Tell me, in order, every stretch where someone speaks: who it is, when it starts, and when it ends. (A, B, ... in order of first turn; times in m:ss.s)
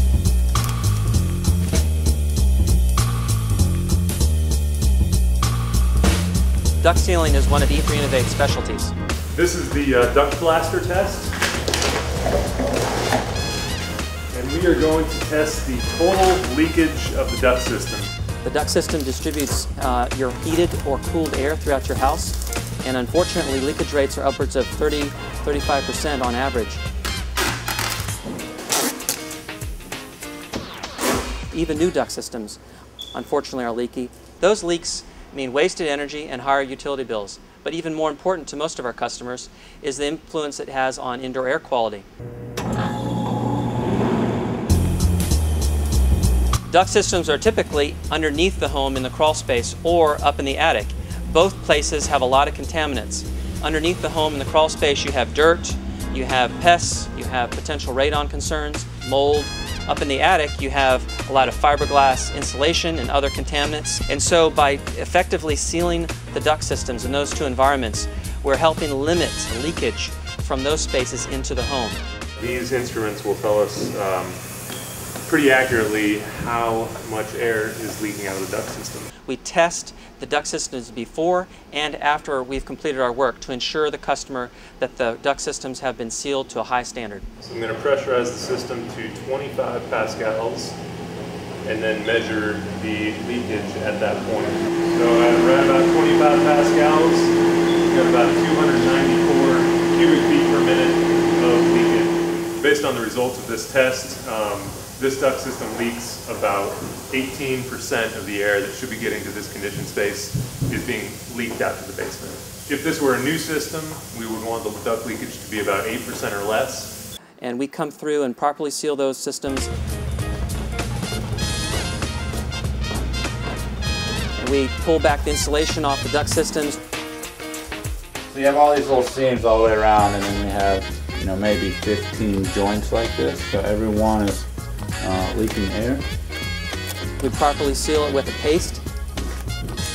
0:06.8-0:08.9 A
0:09.3-0:11.3 B
0:14.3-0:18.1 B
0:18.4-0:26.8 A
0:31.5-0:32.6 A
0:33.1-0:42.1 A
0:46.7-1:12.0 A
1:12.4-1:14.4 B
1:15.3-1:19.1 B
1:19.3-1:27.2 A
1:27.4-1:30.8 B
1:31.6-1:37.4 B
1:37.9-1:56.9 B
1:57.4-1:59.7 A
2:04.4-2:06.8 A
2:08.3-2:14.5 C
2:15.0-2:16.0 C
2:17.2-2:18.8 A